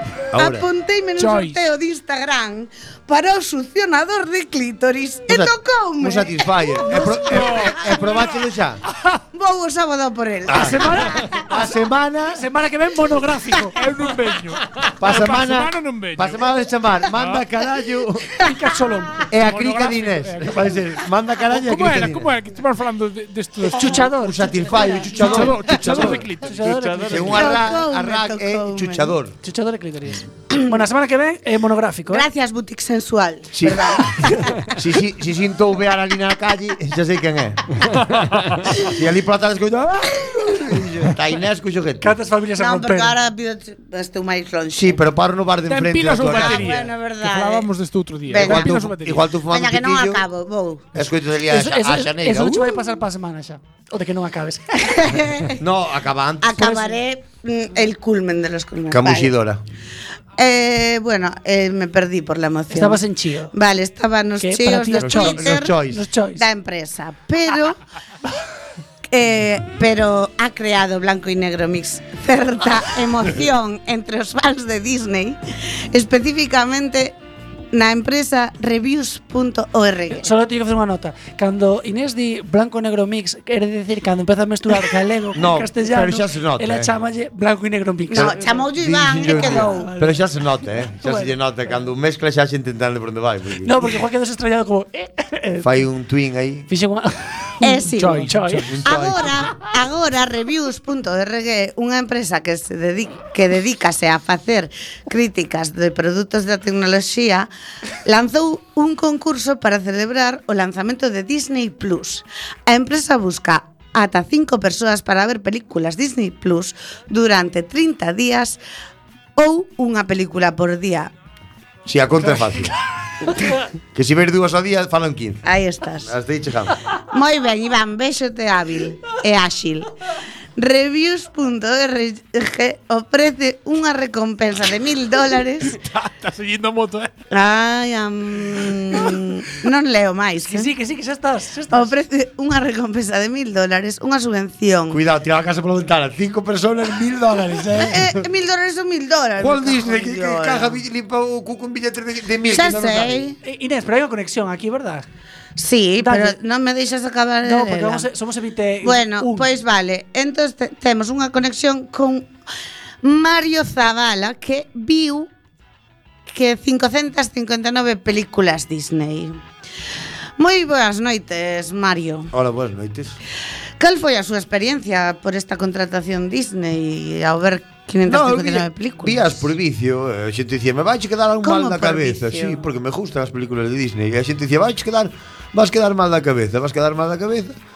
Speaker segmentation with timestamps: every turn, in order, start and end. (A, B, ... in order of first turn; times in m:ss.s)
0:00.3-0:00.7 A
0:00.3-0:08.0 B
0:01.2-0:01.6 C
0:05.3-0:08.8 A
0:07.0-0:08.3 C
0:09.3-0:11.4 B
0:10.5-0:10.8 A
0:10.5-0:11.4 D
0:11.4-0:12.4 A
0:12.3-0:13.8 D
0:13.8-0:16.4 C
0:15.0-0:18.4 A
0:17.1-0:17.4 C
0:18.5-0:19.3 D
0:19.3-0:22.3 A
0:19.4-0:20.8 C
0:21.5-0:24.0 C
0:23.7-0:27.6 D
0:24.0-0:26.3 A
0:25.1-0:27.3 C
0:27.0-0:29.3 A
0:27.3-0:29.1 B
0:29.4-0:32.2 D
0:32.1-0:34.7 B
0:33.5-0:34.1 A
0:34.7-0:37.6 A
0:38.7-0:42.2 A
0:42.0-0:43.2 D
0:42.6-0:45.0 B
0:44.7-0:46.8 A
0:45.7-0:49.3 C
0:46.2-0:47.7 B
0:48.2-0:48.9 B
0:48.3-0:50.2 A
0:49.5-0:50.9 B
0:50.9-0:52.8 A
0:51.5-0:54.8 D
0:54.8-0:55.6 B
0:55.6-0:56.9 A
0:56.4-0:59.3 B
0:58.9-0:59.6 A
1:00.4-1:05.8 B
1:02.7-1:03.5 D
1:04.4-1:06.4 D
1:04.9-1:06.1 A
1:06.4-1:07.8 B
1:09.1-1:17.2 B
1:17.7-1:20.3 B
1:20.1-1:31.3 D
1:25.3-1:26.9 A
1:28.1-1:29.9 B
1:28.1-1:33.9 A
1:33.6-1:35.8 D
1:35.6-1:36.7 A
1:36.7-1:38.7 D
1:37.6-1:47.5 B
1:38.0-1:38.7 C
1:38.6-1:39.4 A
1:48.0-1:58.6 B
1:59.4-2:01.1 B
2:01.8-2:02.7 A
2:03.9-2:05.4 A
2:05.4-2:06.1 B
2:06.0-2:06.7 A
2:07.0-2:09.9 B
2:10.6-2:15.8 B
2:15.8-2:17.1 C
2:17.3-2:20.7 B
2:20.4-2:21.9 D
2:21.7-2:25.0 B
2:24.9-2:28.2 A
2:27.7-2:30.8 B
2:29.4-2:33.3 A
2:32.5-2:33.3 B
2:33.4-2:35.0 D
2:35.6-2:38.1 B
2:36.0-2:36.4 D
2:37.4-2:39.5 D
2:38.8-2:42.3 B
2:43.0-2:45.3 B
2:46.3-2:49.4 B
2:50.4-2:52.3 B
2:52.3-2:53.2 A
2:53.8-2:59.5 B
2:58.0-3:07.6 A
3:01.4-3:02.6 B